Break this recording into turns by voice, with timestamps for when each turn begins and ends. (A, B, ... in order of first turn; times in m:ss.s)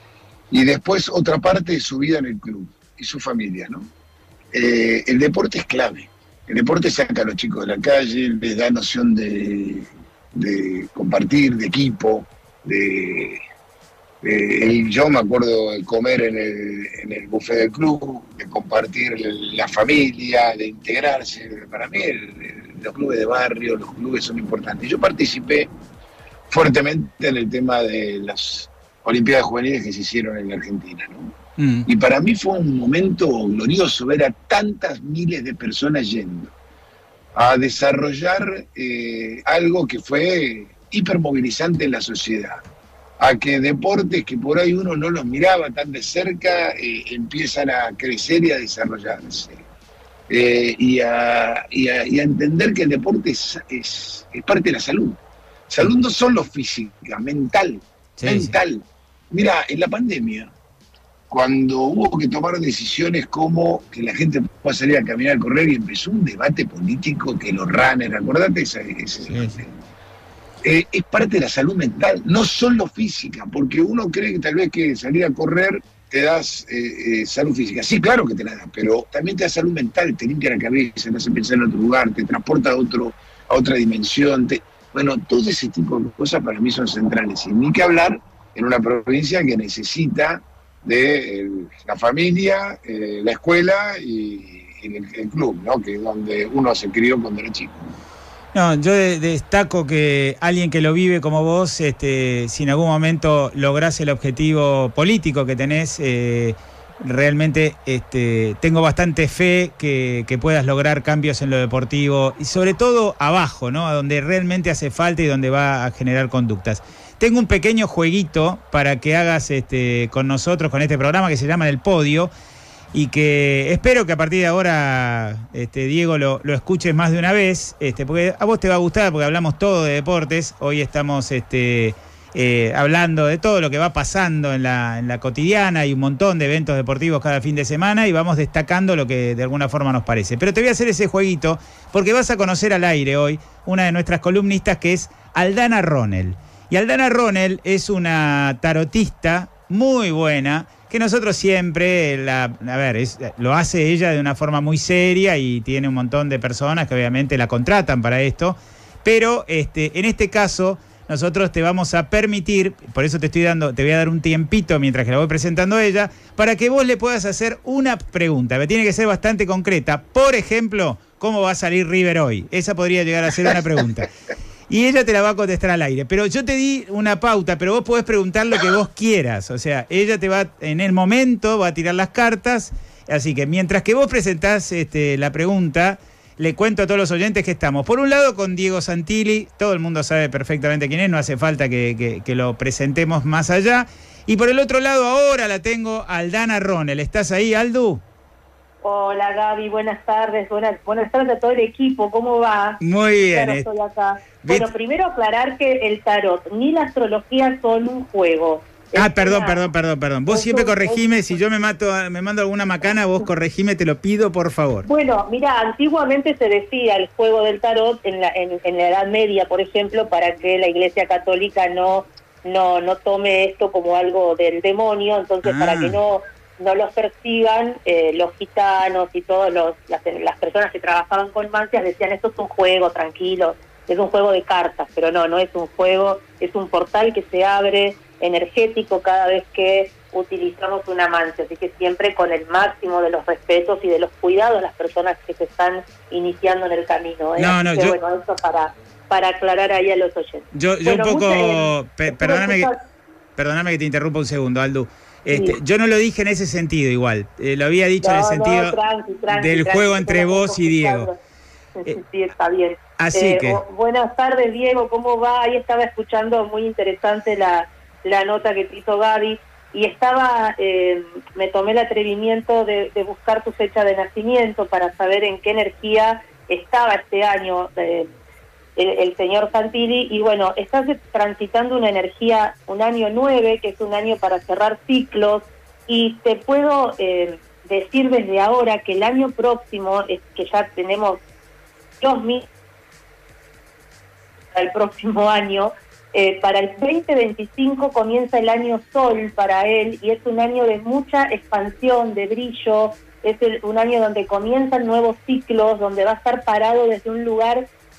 0:00.5-0:03.9 A
0:04.5-0:13.4 A
0:14.2-0:25.7 A
0:26.5-0:31.3 A
0:31.6-0:31.9 B
0:31.9-0:36.5 A
0:37.4-0:42.6 A
0:43.2-0:49.6 A
0:50.3-1:00.5 A
0:58.2-0:58.6 B
1:01.3-1:09.7 A
1:09.3-1:09.6 B
1:10.6-1:37.9 A
1:38.5-2:02.3 B
2:02.9-2:54.1 B
2:54.7-3:18.0 B
3:18.8-3:22.8 C
3:22.8-3:23.6 B
3:23.3-3:29.6 C
3:29.0-3:34.9 B
3:30.3-3:31.0 C
3:34.9-4:12.8 C
3:45.4-3:46.0 B
4:07.4-4:08.0 B
4:10.5-4:12.7 B
4:13.4-4:18.8 B
4:15.3-4:15.6 C
4:18.0-4:21.2 C
4:19.3-4:21.1 B
4:21.8-4:38.1 C
4:23.0-4:23.6 B
4:38.8-4:51.2 C
4:52.0-4:52.4 C
4:54.5-5:07.7 C